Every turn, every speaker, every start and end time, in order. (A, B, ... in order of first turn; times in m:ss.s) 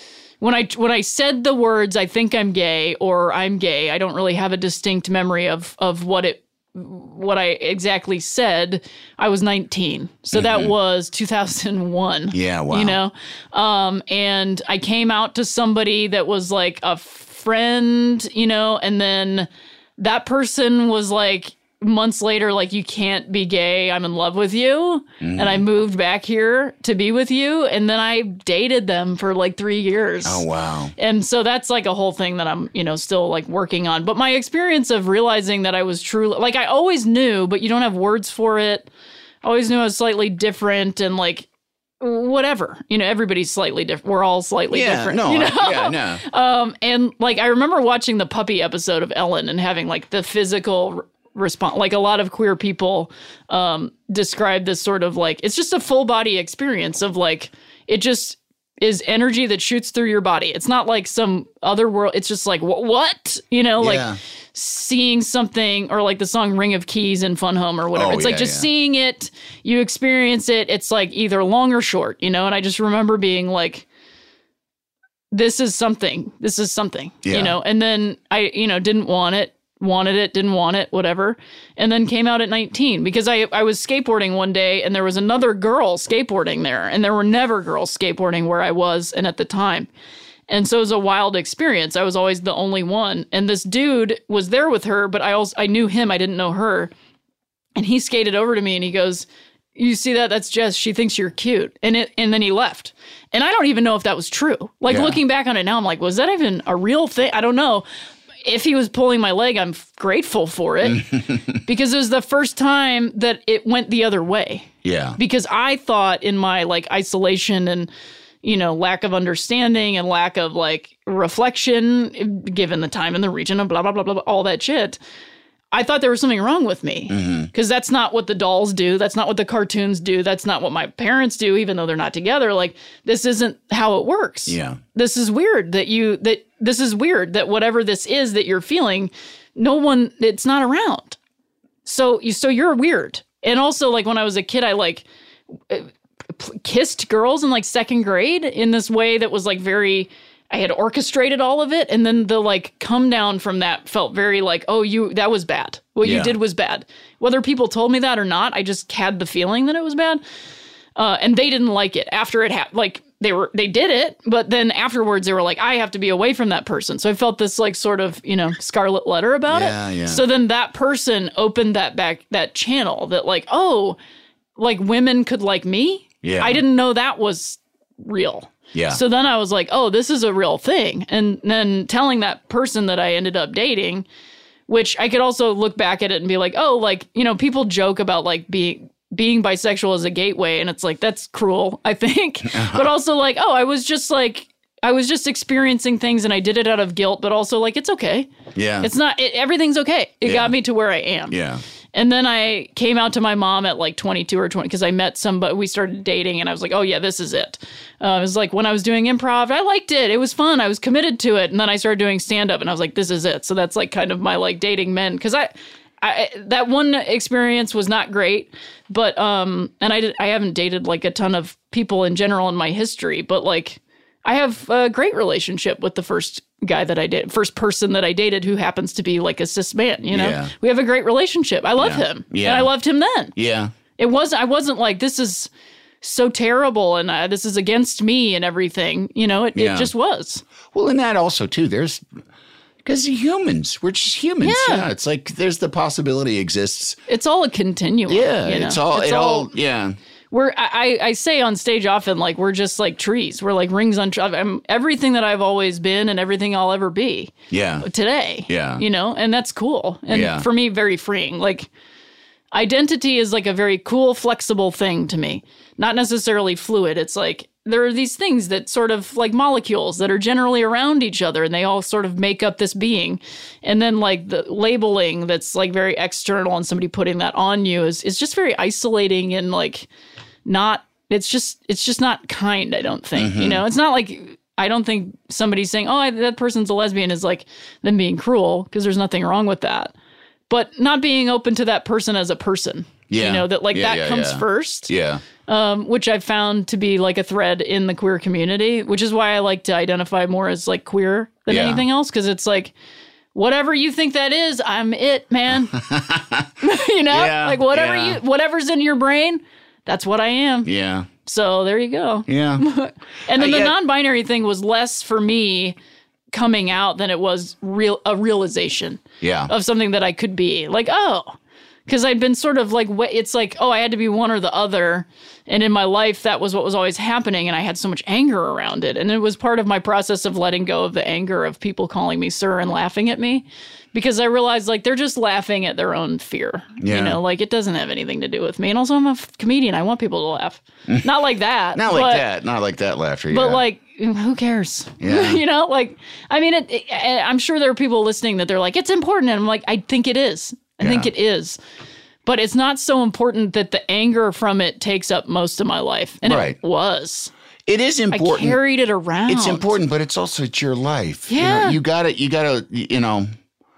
0:00.4-0:30.4 A
0:10.3-0:10.7 B
0:12.3-0:13.0 B
0:25.2-0:25.6 B
0:30.2-0:30.9 B
0:31.0-0:38.9 A
0:39.4-0:41.4 A
0:42.0-1:13.8 A
0:44.7-0:46.2 B
1:03.8-1:04.2 B
1:07.9-1:08.7 B
1:15.3-1:29.9 A
1:17.2-1:17.6 B
1:30.5-1:36.9 A
1:37.8-1:47.8 A
1:44.9-1:45.2 B
1:48.4-1:51.1 A
1:50.8-1:51.6 B
1:51.6-1:57.9 A
1:54.8-1:55.2 B
1:58.4-2:05.0 A
2:05.7-2:21.2 A
2:07.1-2:07.5 B
2:14.5-2:14.8 B
2:21.8-2:25.0 A
2:25.7-2:40.2 A
2:36.0-2:36.4 B
2:41.0-2:54.0 A
2:49.5-2:50.2 B
2:54.6-3:04.0 A
2:56.2-2:56.6 B
2:58.7-2:59.0 B
3:04.7-3:21.4 A
3:12.5-3:12.9 B
3:18.5-3:18.9 B
3:20.2-3:20.5 B
3:21.3-3:21.6 B
3:21.9-3:53.3 A
3:50.1-3:50.5 B
3:51.8-3:52.7 B
3:53.4-3:53.7 B
3:54.0-3:55.5 A
3:56.0-4:00.4 A
3:59.5-3:59.9 B
4:00.7-4:02.0 B
4:02.8-4:07.0 B
4:04.4-4:04.9 A
4:07.1-4:09.5 A
4:08.1-4:10.0 B
4:10.3-4:21.7 A
4:17.5-4:17.8 B
4:18.5-4:18.8 B
4:20.1-4:20.5 B
4:22.5-4:39.9 A
4:40.4-4:49.9 A
4:43.1-4:43.6 B
4:50.5-4:54.9 A
4:53.1-4:55.2 B
4:55.4-5:02.7 A
5:01.5-5:01.8 B
5:03.3-5:05.7 A
5:05.7-5:06.5 B
5:06.6-5:10.7 A
5:07.1-5:08.2 B
5:10.6-5:11.1 B
5:11.2-5:15.8 A
5:12.3-5:12.6 B
5:13.3-5:13.7 B
5:16.3-5:21.4 A
5:19.2-5:19.5 B
5:21.9-5:42.2 A
5:36.8-5:37.2 B
5:41.7-5:43.6 B
5:43.3-5:51.6 A
5:45.0-5:45.4 B
5:50.8-5:51.1 B
5:52.2-5:57.3 A
5:56.2-5:56.6 B
5:57.7-5:58.6 B
5:58.1-5:59.7 A
5:59.3-6:03.3 B
6:01.3-6:01.8 A